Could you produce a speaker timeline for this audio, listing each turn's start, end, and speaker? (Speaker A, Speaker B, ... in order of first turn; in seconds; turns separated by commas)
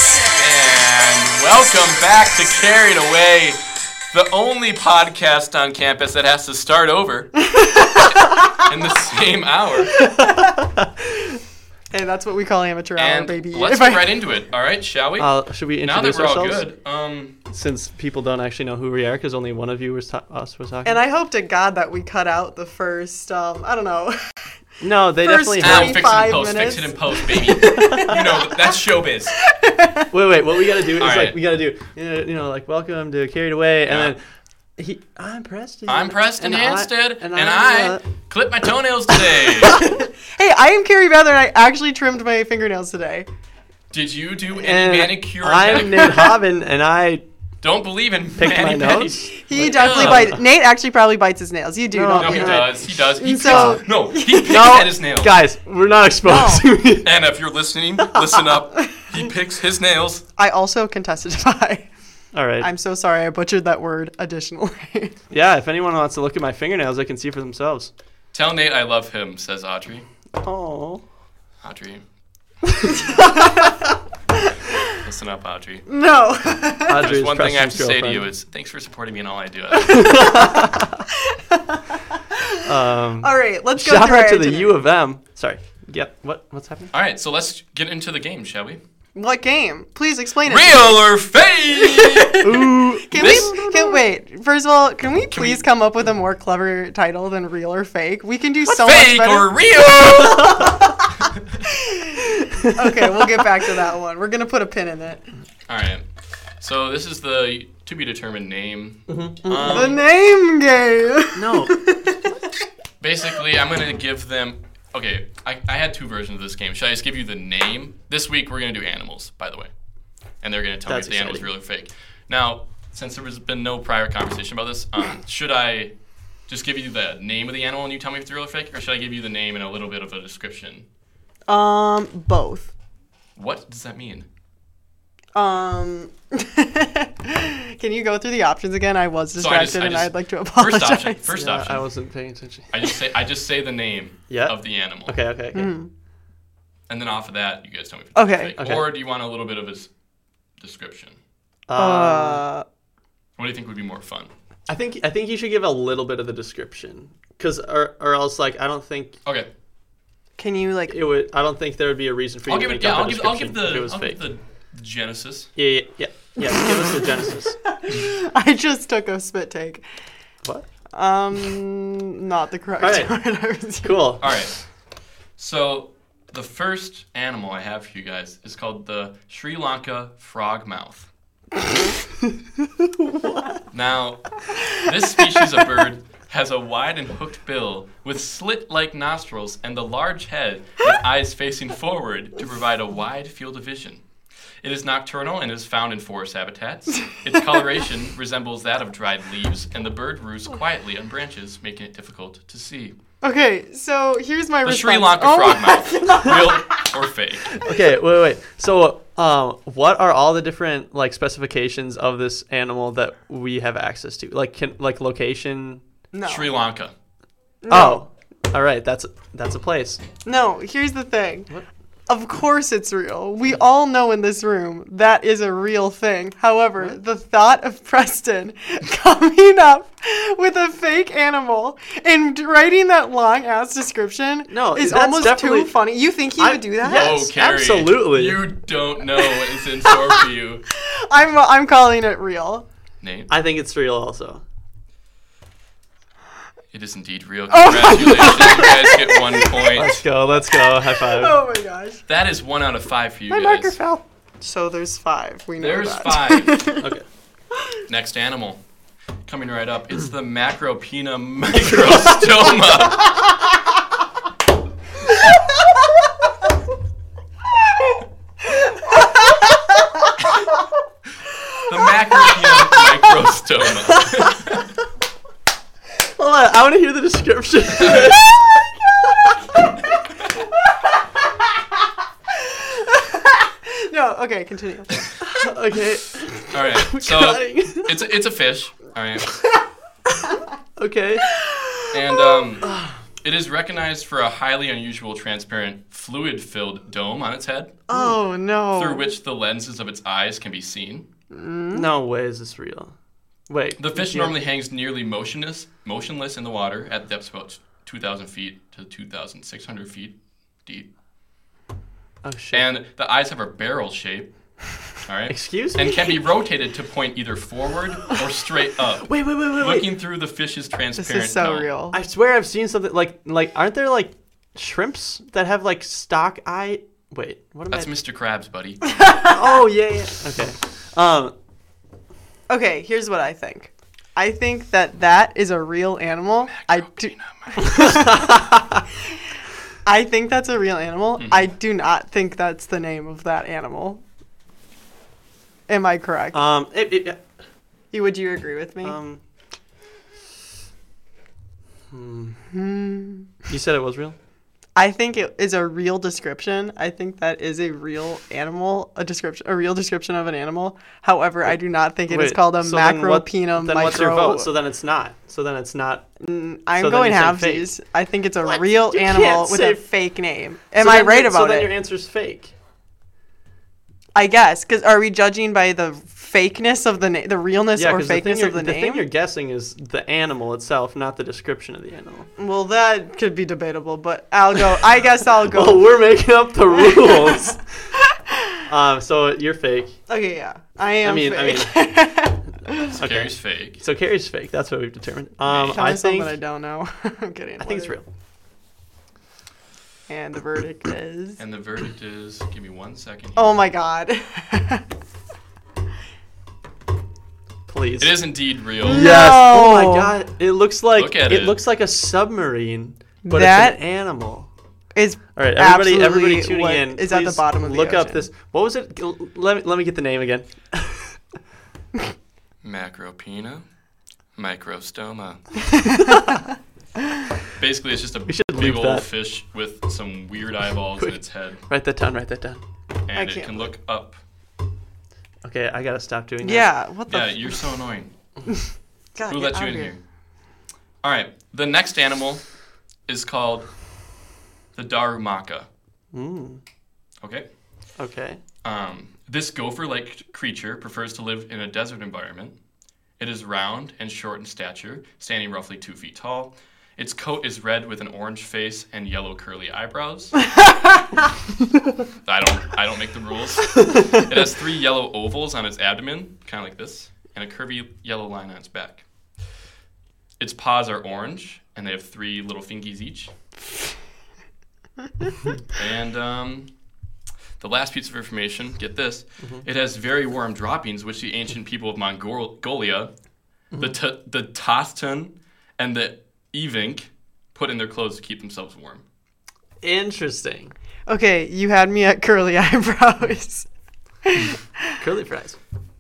Speaker A: 0.3-3.6, Speaker A: 4.1-10.0, Speaker B: 7.6-8.6, Speaker B: 10.1-10.6, Speaker C: 10.1-11.0, Speaker B: 11.9-14.1, Speaker A: 13.0-17.4, Speaker C: 15.2-16.7, Speaker C: 17.5-21.0, Speaker B: 20.9-24.4, Speaker C: 24.8-26.2, Speaker B: 25.2-28.2, Speaker A: 25.6-29.4, Speaker C: 27.9-28.2, Speaker B: 29.5-30.1, Speaker C: 30.1-34.2, Speaker A: 31.0-31.4, Speaker A: 33.9-34.1, Speaker C: 34.8-38.0, Speaker A: 35.9-39.9, Speaker B: 39.7-43.3, Speaker A: 43.9-46.3, Speaker C: 44.5-47.2, Speaker A: 47.6-50.4, Speaker C: 48.4-50.4, Speaker B: 49.3-54.7, Speaker C: 51.9-52.8, Speaker A: 52.2-55.4, Speaker C: 53.4-53.8, Speaker C: 54.4-57.1, Speaker B: 56.2-56.6, Speaker A: 56.9-60.2, Speaker B: 60.4-61.9, Speaker C: 62.3-62.7, Speaker B: 62.6-65.2, Speaker C: 65.3-67.9, Speaker A: 68.3-70.1, Speaker B: 70.4-71.0, Speaker A: 71.6-72.0, Speaker B: 72.9-73.7, Speaker A: 74.9-75.9, Speaker B: 75.9-77.0, Speaker C: 76.9-78.3, Speaker A: 77.0-80.4, Speaker C: 79.9-81.0, Speaker B: 80.0-80.6, Speaker B: 81.3-82.6, Speaker C: 82.7-86.9, Speaker B: 83.2-84.8, Speaker A: 86.9-88.8, Speaker B: 89.2-91.1, Speaker A: 90.5-92.6, Speaker B: 91.8-99.7, Speaker C: 92.4-94.0, Speaker A: 93.1-93.5, Speaker A: 95.3-95.6, Speaker A: 98.7-100.7, Speaker C: 100.2-100.7, Speaker B: 100.4-101.0, Speaker B: 101.7-105.2, Speaker C: 102.5-103.5, Speaker A: 105.7-106.1, Speaker A: 106.6-110.0, Speaker C: 109.1-110.0, Speaker B: 109.5-112.2, Speaker C: 111.3-111.7, Speaker A: 113.0-119.7, Speaker A: 120.4-125.9, Speaker C: 120.9-121.5, Speaker A: 126.5-130.9, Speaker B: 131.5-132.7, Speaker A: 133.4-134.3, Speaker B: 135.3-141.2, Speaker A: 139.3-141.9, Speaker C: 141.3-142.8, Speaker A: 142.7-145.2, Speaker C: 144.3-145.7, Speaker B: 145.5-145.9, Speaker A: 146.9-149.9, Speaker B: 148.2-148.6, Speaker C: 148.6-148.9, Speaker A: 150.6-151.2, Speaker C: 151.7-152.5, Speaker B: 151.8-152.7, Speaker A: 153.4-154.3, Speaker C: 154.7-159.2, Speaker B: 160.4-161.0, Speaker C: 160.9-164.2, Speaker A: 162.5-165.5, Speaker C: 165.6-167.6, Speaker B: 166.4-167.0, Speaker B: 167.7-169.8, Speaker B: 170.9-174.2, Speaker C: 172.8-173.1, Speaker C: 173.8-174.3, Speaker A: 174.2-174.6, Speaker A: 175.4-181.1, Speaker C: 182.9-183.6, Speaker A: 183.7-194.0, Speaker A: 194.6-202.9, Speaker B: 203.2-206.8, Speaker A: 204.7-207.7, Speaker C: 207.6-215.8, Speaker B: 216.1-216.5, Speaker A: 216.2-216.9, Speaker B: 217.6-218.0, Speaker C: 217.7-220.0, Speaker B: 220.2-221.5, Speaker B: 222.1-237.3, Speaker C: 234.5-235.8, Speaker C: 236.4-238.4, Speaker A: 236.8-240.7, Speaker B: 239.4-240.1, Speaker B: 240.7-242.7, Speaker A: 243.0-243.3, Speaker C: 243.3-244.4, Speaker A: 246.7-250.0, Speaker B: 247.5-249.7, Speaker C: 249.7-251.4, Speaker B: 250.8-252.0, Speaker A: 252.1-253.8, Speaker B: 253.3-256.9, Speaker A: 255.6-256.7, Speaker A: 257.9-258.6, Speaker A: 259.3-263.2, Speaker C: 261.6-262.4, Speaker A: 271.6-274.7, Speaker C: 276.0-278.4, Speaker A: 277.9-278.1, Speaker B: 282.4-285.4, Speaker C: 285.4-286.2, Speaker A: 286.5-289.4, Speaker C: 287.0-287.5, Speaker B: 287.5-287.8, Speaker C: 290.8-291.3, Speaker B: 291.3-292.4, Speaker A: 291.9-292.7, Speaker C: 292.6-293.0, Speaker A: 293.2-297.8, Speaker B: 297.9-299.1, Speaker C: 297.9-298.2, Speaker A: 298.8-301.1, Speaker B: 301.3-301.9, Speaker C: 301.7-302.9, Speaker C: 303.5-304.4, Speaker A: 303.8-310.9, Speaker C: 312.2-312.6, Speaker A: 312.5-314.3, Speaker A: 315.0-321.7, Speaker C: 315.3-316.2, Speaker C: 319.0-319.9, Speaker B: 321.0-322.0, Speaker C: 321.9-327.9, Speaker A: 327.7-328.9, Speaker B: 329.0-329.3, Speaker C: 329.2-331.4, Speaker B: 332.5-338.5, Speaker A: 336.5-337.9, Speaker C: 337.7-338.6, Speaker B: 339.9-344.0, Speaker A: 341.2-341.5, Speaker B: 345.7-346.4, Speaker C: 346.3-347.2, Speaker B: 347.9-349.0, Speaker C: 348.8-349.2, Speaker C: 351.9-352.4, Speaker B: 352.5-353.3, Speaker C: 353.5-354.2, Speaker B: 354.8-364.5, Speaker C: 362.1-366.1, Speaker B: 366.2-371.8, Speaker C: 366.8-367.7, Speaker C: 368.4-369.8, Speaker C: 370.8-372.5, Speaker B: 374.1-379.1, Speaker C: 377.8-382.3, Speaker B: 382.4-386.0, Speaker C: 385.4-387.6, Speaker B: 386.7-388.6, Speaker C: 388.7-390.0, Speaker B: 390.1-393.0, Speaker C: 391.0-391.8, Speaker C: 393.0-396.4, Speaker A: 393.0-393.8, Speaker A: 395.4-395.8, Speaker B: 395.7-398.0, Speaker C: 397.6-398.1, Speaker B: 400.1-401.4, Speaker A: 401.4-403.6, Speaker B: 403.4-404.8, Speaker C: 407.7-408.1, Speaker A: 408.0-409.3, Speaker B: 408.8-410.1, Speaker C: 408.9-414.5, Speaker A: 411.0-411.6, Speaker B: 413.2-413.8, Speaker B: 414.9-418.3, Speaker C: 415.4-421.2, Speaker A: 422.6-423.7, Speaker A: 424.4-425.6, Speaker B: 425.9-426.4, Speaker A: 427.6-431.6, Speaker C: 428.3-429.1, Speaker C: 431.0-432.6, Speaker A: 433.1-434.2, Speaker B: 433.1-433.7, Speaker C: 435.4-436.7, Speaker B: 436.4-437.5, Speaker A: 437.1-438.1, Speaker B: 439.2-439.9, Speaker A: 439.3-440.0, Speaker A: 441.0-442.4, Speaker A: 443.1-443.7, Speaker A: 444.8-445.7, Speaker C: 446.1-446.6, Speaker C: 448.0-448.4, Speaker A: 448.6-452.5, Speaker A: 453.2-460.4, Speaker A: 462.3-469.0, Speaker A: 470.4-473.3, Speaker A: 475.7-476.7, Speaker A: 477.6-483.1, Speaker A: 483.8-489.0, Speaker C: 489.8-490.7, Speaker B: 491.1-493.7, Speaker B: 494.2-495.0, Speaker C: 495.0-495.6